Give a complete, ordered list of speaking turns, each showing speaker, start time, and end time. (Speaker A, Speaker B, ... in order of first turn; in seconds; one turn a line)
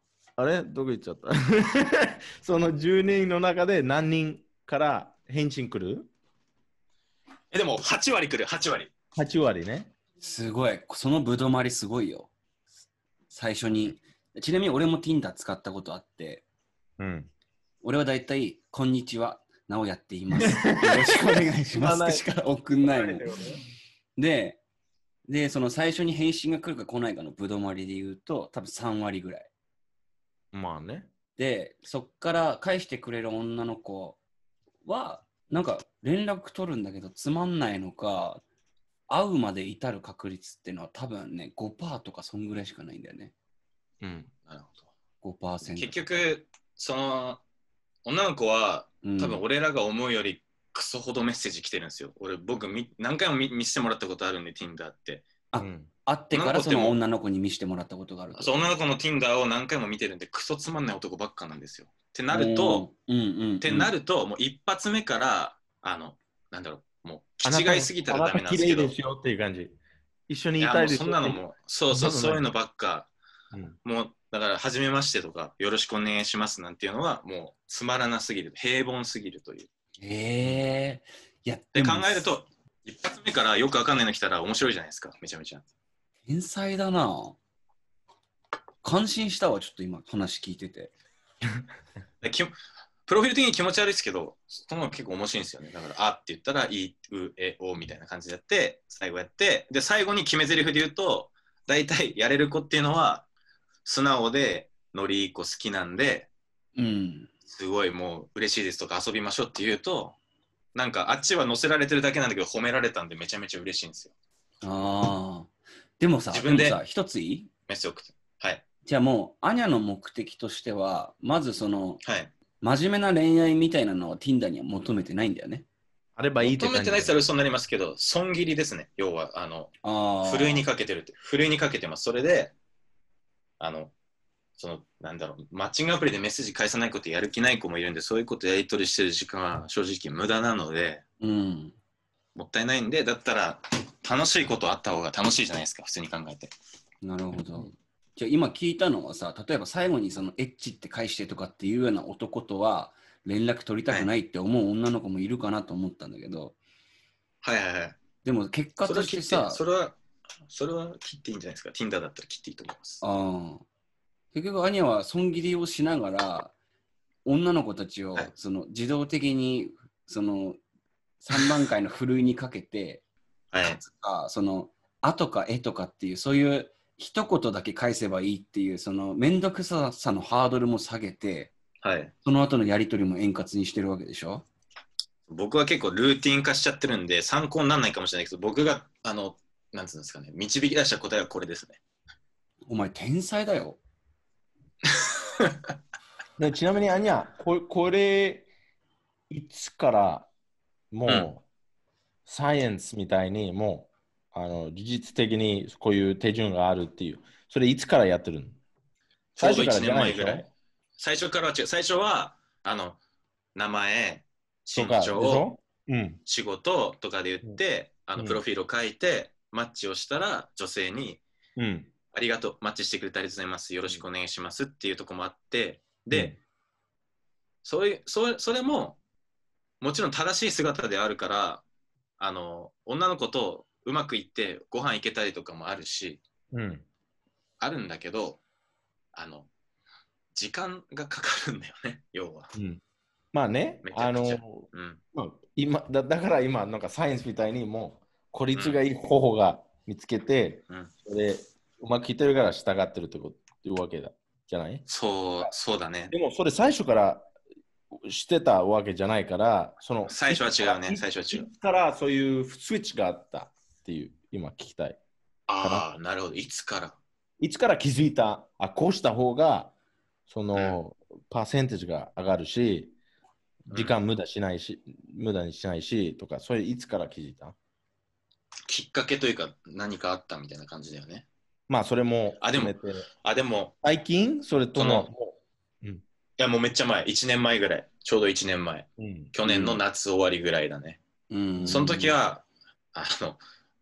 Speaker A: 0.4-6.1
Speaker B: 7.5-8.9
Speaker A: 9.1-9.9
Speaker C: 10.2-12.3
Speaker C: 13.3-16.4
Speaker A: 17.0-17.3
Speaker C: 17.8-23.3
Speaker A: 20.3-22.2
Speaker A: 22.8-23.6
Speaker C: 24.2-24.6
Speaker C: 25.3-29.5
Speaker A: 30.5-31.1
Speaker C: 31.4-34.2
Speaker C: 34.8-38.4
Speaker C: 39.1-43.3
Speaker A: 44.0-44.3
Speaker B: 44.5-44.9
Speaker C: 45.2-46.2
Speaker B: 45.6-47.4
Speaker B: 48.0-55.2
Speaker C: 49.0-49.4
Speaker C: 55.5-58.7
Speaker A: 55.6-55.9
Speaker B: 56.3-57.0
Speaker B: 58.4-62.9
Speaker C: 62.3-63.9
Speaker B: 63.6-68.9
Speaker A: 67.4-69.8
Speaker A: 70.3-72.5
Speaker B: 70.6-73.1
Speaker A: 73.5-73.8
Speaker B: 73.8-79.7
Speaker C: 80.0-82.2
Speaker B: 81.7-85.6
Speaker C: 86.2-87.4
Speaker C: 88.8-90.9
Speaker B: 92.2-92.5
Speaker B: 93.0-103.2
Speaker B: 103.8-106.3
Speaker C: 106.8-107.3
Speaker B: 107.5-110.2
Speaker B: 110.7-114.1
Speaker C: 114.6-117.5
Speaker B: 116.3-116.8
Speaker B: 117.7-118.6
Speaker C: 118.8-122.0
Speaker B: 122.0-122.3
Speaker C: 122.6-125.6
Speaker A: 126.2-127.1
Speaker B: 126.4-132.5
Speaker C: 129.8-130.6
Speaker B: 133.6-133.9
Speaker B: 134.6-141.0
Speaker C: 141.2-141.7
Speaker B: 142.3-146.5
Speaker C: 147.0-156.6
Speaker B: 157.4-158.0
Speaker C: 158.2-159.6
Speaker B: 158.8-159.9
Speaker B: 160.5-163.0
Speaker C: 163.0-163.6
Speaker C: 164.3-166.5
Speaker C: 167.2-170.6
Speaker C: 171.2-173.0
Speaker B: 173.5-173.8
Speaker C: 173.6-181.5
Speaker B: 181.8-182.1
Speaker C: 182.2-184.4
Speaker B: 185.3-191.8
Speaker C: 192.7-193.8
Speaker B: 194.9-195.5
Speaker A: 196.4-198.5
Speaker A: 199.3-200.3
Speaker A: 200.9-201.4
Speaker A: 202.2-208.6
Speaker B: 209.3-213.0
Speaker A: 209.4-210.5
Speaker B: 213.5-215.5
Speaker A: 214.7-216.2
Speaker B: 216.2-221.2
Speaker A: 221.6-221.9
Speaker B: 222.1-226.3
Speaker A: 226.1-226.4
Speaker B: 227.6-229.0
Speaker B: 229.8-231.6
Speaker B: 232.2-236.2
Speaker A: 236.5-236.8
Speaker B: 237.6-238.4
Speaker B: 239.1-239.5
Speaker B: 240.3-242.5
Speaker A: 242.5-242.8
Speaker A: 243.3-254.8
Speaker B: 243.8-245.0
Speaker B: 248.5-248.8
Speaker B: 254.9-256.1
Speaker A: 256.1-257.3
Speaker A: 257.9-265.0
Speaker B: 260.1-261.5
Speaker B: 265.5-267.0
Speaker A: 267.4-269.7
Speaker A: 270.3-272.9
Speaker A: 273.7-277.6
Speaker B: 273.7-274.0
Speaker B: 278.7-281.2
Speaker A: 281.7-283.1
Speaker B: 282.4-283.7
Speaker A: 283.8-286.0
Speaker B: 284.7-285.1
Speaker B: 286.4-291.0
Speaker A: 289.0-289.3
Speaker C: 289.4-289.8
Speaker C: 291.3-292.1
Speaker A: 291.6-291.9
Speaker B: 291.6-293.4